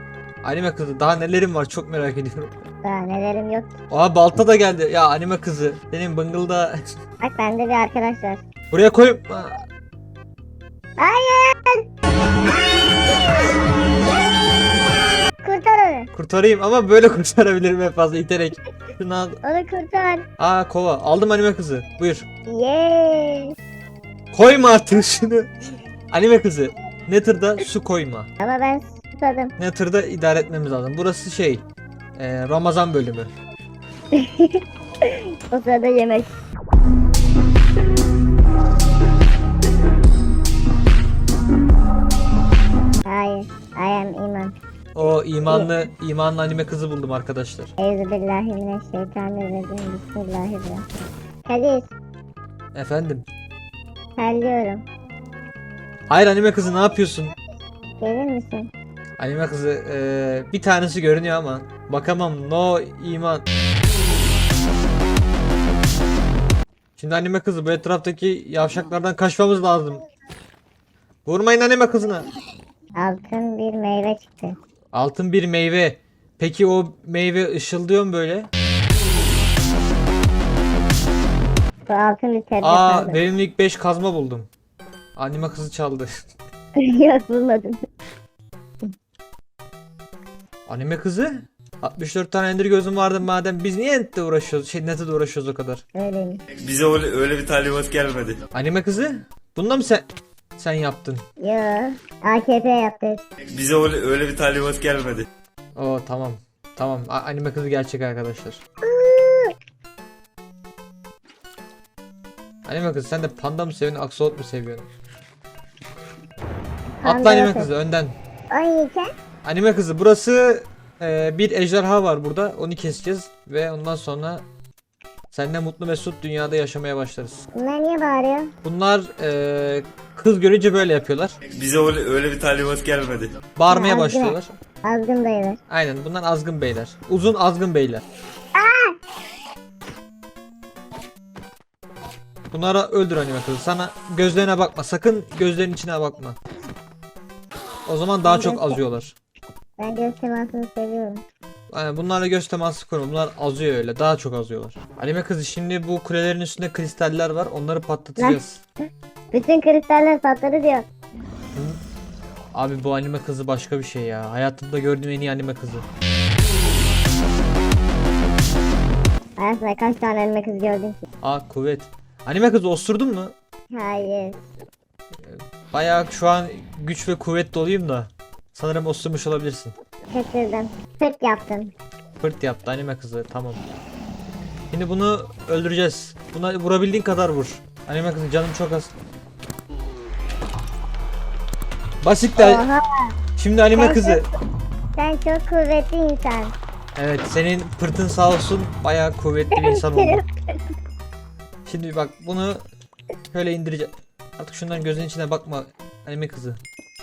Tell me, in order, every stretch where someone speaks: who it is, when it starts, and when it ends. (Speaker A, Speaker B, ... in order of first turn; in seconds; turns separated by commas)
Speaker A: 0.4-2.7, Speaker B: 2.8-3.8, Speaker A: 3.9-6.8, Speaker B: 7.2-8.4, Speaker A: 8.7-9.6, Speaker B: 11.0-11.8, Speaker B: 15.4-16.1, Speaker A: 16.1-19.4, Speaker B: 19.4-20.3, Speaker A: 20.4-22.3, Speaker B: 22.5-23.5, Speaker A: 24.3-25.5, Speaker A: 26.1-28.3, Speaker B: 28.4-29.6, Speaker A: 29.6-31.6, Speaker A: 32.2-33.3, Speaker B: 34.1-36.3, Speaker B: 43.1-44.6, Speaker A: 44.9-47.7, Speaker B: 47.8-50.9, Speaker B: 51.5-51.9, Speaker A: 52.7-53.3, Speaker B: 54.2-54.9, Speaker A: 56.1-57.3, Speaker B: 58.0-58.7, Speaker A: 59.2-63.5, Speaker A: 67.0-70.0, Speaker A: 71.3-72.3, Speaker B: 73.0-74.6, Speaker A: 74.9-78.5, Speaker B: 81.9-83.2, Speaker A: 82.6-84.5, Speaker A: 85.2-86.1, Speaker B: 86.8-87.8, Speaker A: 90.7-95.8, Speaker B: 96.0-96.4, Speaker C: 96.6-98.4, Speaker A: 98.5-100.0, Speaker A: 100.6-101.2, Speaker B: 101.4-103.3, Speaker C: 103.5-105.3, Speaker A: 105.8-108.6, Speaker B: 108.8-109.5, Speaker A: 112.7-114.9, Speaker B: 117.0-117.7, Speaker A: 117.0-118.2, Speaker B: 118.5-119.1, Speaker A: 119.4-124.5, Speaker A: 125.3-127.5, Speaker B: 127.5-128.5, Speaker A: 128.6-131.4, Speaker C: 131.5-133.3, Speaker A: 133.6-134.5, Speaker B: 133.7-135.6, Speaker A: 135.7-138.0, Speaker B: 138.6-139.0, Speaker A: 142.5-146.4, Speaker A: 147.9-149.2, Speaker B: 148.2-148.8, Speaker B: 149.8-151.2, Speaker A: 151.7-158.6, Speaker B: 159.3-160.9, Speaker A: 162.5-165.9, Speaker B: 169.4-171.1, Speaker A: 171.2-173.3, Speaker B: 173.7-174.5, Speaker A: 175.2-179.8, Speaker B: 180.1-181.7, Speaker A: 182.2-183.6, Speaker A: 184.7-188.9, Speaker A: 192.0-192.7, Speaker B: 192.4-193.2, Speaker A: 193.4-194.3, Speaker B: 193.7-194.3, Speaker B: 195.0-196.6, Speaker A: 197.0-200.2, Speaker B: 199.5-200.6, Speaker A: 201.7-202.6, Speaker A: 203.3-206.6